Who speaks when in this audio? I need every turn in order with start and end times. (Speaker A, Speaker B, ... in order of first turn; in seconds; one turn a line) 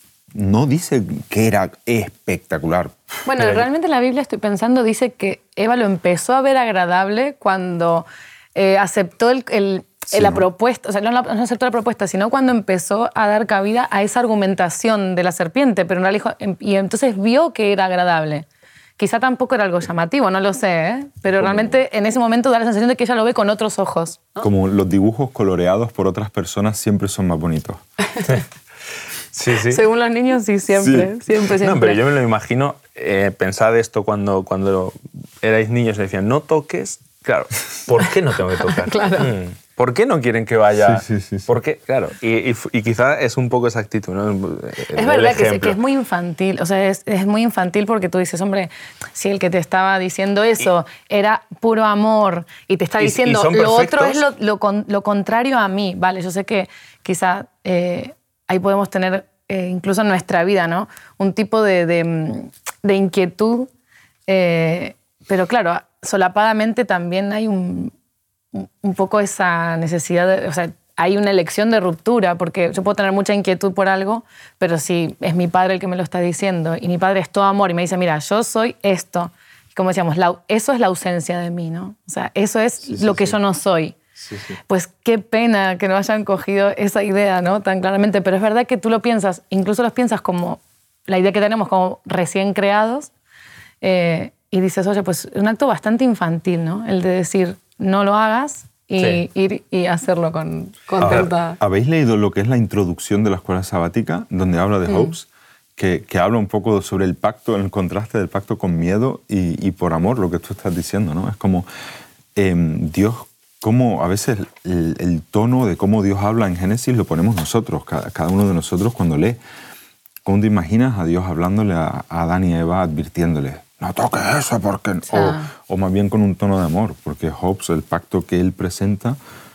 Speaker A: 0.3-3.6
Speaker B: 3.2-18.5
Speaker A: 10.1-10.4
Speaker B: 19.0-24.4
Speaker A: 21.4-21.7
Speaker A: 24.4-27.8
Speaker C: 29.3-29.8
Speaker B: 29.7-32.0
Speaker A: 30.8-31.1
Speaker C: 31.4-45.8
Speaker B: 38.7-39.3
Speaker A: 40.8-41.5
Speaker B: 44.9-63.7
Speaker C: 53.0-54.2
Speaker B: 64.3-67.9
Speaker B: 68.5-84.0
Speaker A: 82.9-83.3
Speaker A: 84.2-84.5
Speaker B: 84.7-93.1
Speaker B: 93.8-101.6
Speaker C: 101.0-101.3
Speaker A: 101.0-111.7
Speaker A: 112.4-119.4
Speaker A: 120.2-129.2
Speaker B: 125.1-125.5